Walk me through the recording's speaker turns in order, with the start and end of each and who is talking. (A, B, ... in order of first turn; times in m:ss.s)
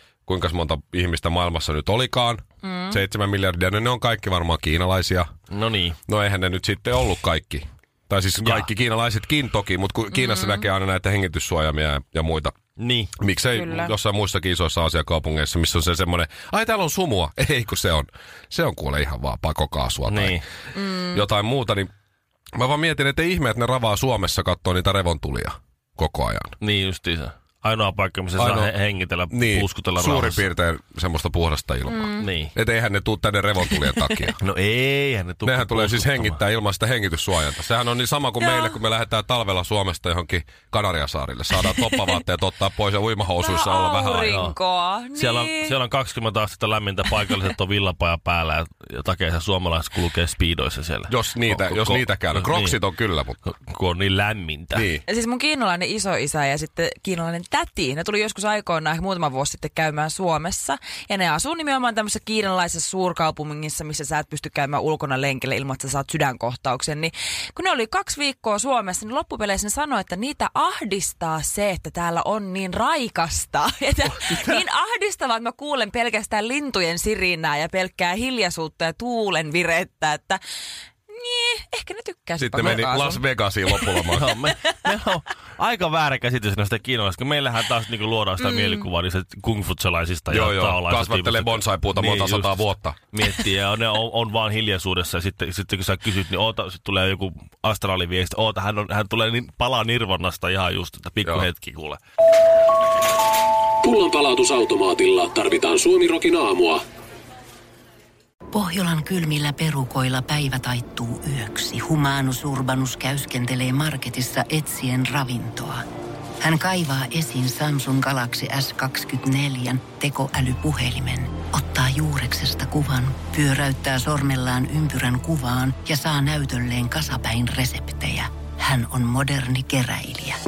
0:00.3-0:05.3 A
0:02.6-0:03.0 B
0:05.5-0:06.0 C
0:06.1-0:12.5 A
0:08.4-0:08.7 C
0:10.1-0:10.7 B
0:12.8-0:13.1 C
0:13.2-0:20.4 A
0:13.5-0:14.0 B
0:20.1-0:20.5 C
0:20.8-0:21.2 B
0:21.1-0:21.9 A
0:22.6-0:26.6 A
0:26.6-0:30.5 C
0:28.4-0:28.7 A
0:29.3-0:34.4 A
0:31.9-0:32.2 B
0:32.2-0:32.5 C
0:33.7-0:34.3 B
0:34.4-0:36.4 C
0:35.4-0:44.3 A
0:38.4-0:38.8 B
0:41.8-0:42.2 B
0:43.4-0:45.8 B
0:44.3-0:44.6 C
0:45.2-0:52.8 C
0:51.1-0:53.4 A
0:53.4-0:54.9 C
0:54.7-0:55.0 A
0:55.1-1:20.4 B
1:14.1-1:14.6 C
1:21.1-1:24.2 B
1:22.4-1:24.3 A
1:24.1-1:42.0 C
1:28.4-1:28.9 B
1:30.3-1:33.0 A
1:43.8-1:46.8 D
1:48.5-1:55.8 E
1:56.4-2:10.4 E